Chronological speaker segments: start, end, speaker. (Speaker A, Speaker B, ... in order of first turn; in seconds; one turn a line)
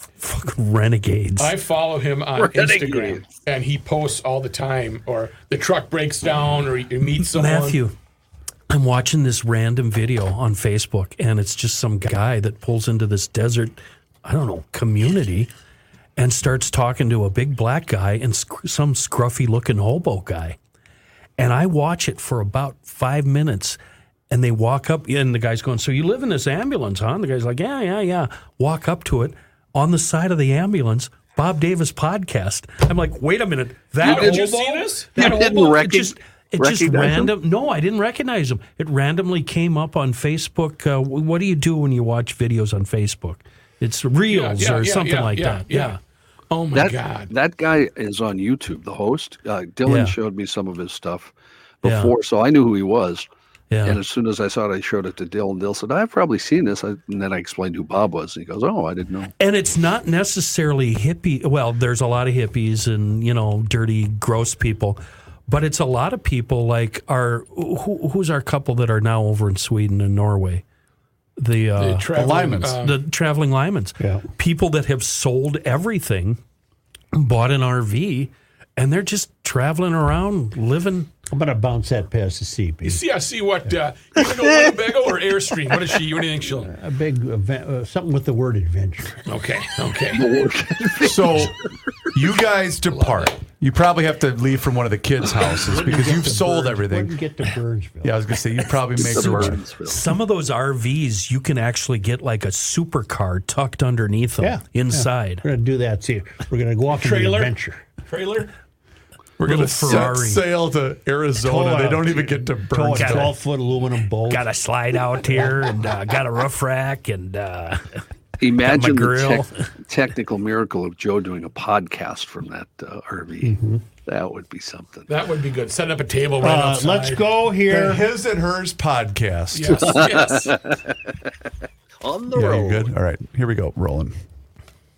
Speaker A: 0.2-1.6
Speaker B: 1.4-7.8
Speaker C: 2.4-3.2
Speaker A: 7.2-7.9
Speaker A: 8.7-15.5
Speaker A: 16.2-20.6
Speaker A: 21.4-23.8
Speaker A: 24.3-46.0
Speaker B: 34.0-35.5
Speaker C: 34.0-34.4
Speaker C: 35.1-37.3
Speaker B: 44.3-46.0
Speaker B: 46.5-47.3
Speaker C: 46.7-53.3
Speaker A: 49.9-50.1
Speaker A: 51.8-52.1
Speaker A: 53.7-54.0
Speaker C: 53.8-59.3
Speaker A: 59.4-70.6
Speaker A: 71.4-76.4
Speaker B: 71.8-73.0
Speaker D: 72.1-72.8
Speaker E: 74.0-74.2
Speaker A: 77.1-81.1
Speaker E: 81.3-83.0
Speaker B: 82.8-86.7
Speaker E: 86.6-89.2
Speaker B: 89.2-90.3
Speaker C: 90.1-91.5
Speaker D: 91.0-91.5
Speaker D: 92.1-97.2
Speaker B: 92.9-93.3
Speaker E: 95.5-98.2
Speaker D: 98.0-99.6
Speaker C: 98.9-100.1
Speaker A: 99.2-105.4
Speaker E: 104.4-107.8
Speaker B: 106.9-107.5
Speaker B: 108.1-108.5
Speaker D: 109.4-113.4
Speaker A: 109.4-110.5
Speaker B: 109.6-110.1
Speaker E: 111.4-114.5
Speaker A: 112.9-113.3
Speaker A: 114.3-118.0
Speaker C: 118.4-125.1
Speaker A: 118.6-119.5
Speaker E: 123.4-123.8
Speaker B: 125.1-127.3
Speaker E: 126.4-128.1
Speaker D: 127.7-130.0
Speaker B: 129.5-130.6
Speaker C: 129.9-130.8
Speaker C: 132.0-132.8
Speaker D: 132.3-134.1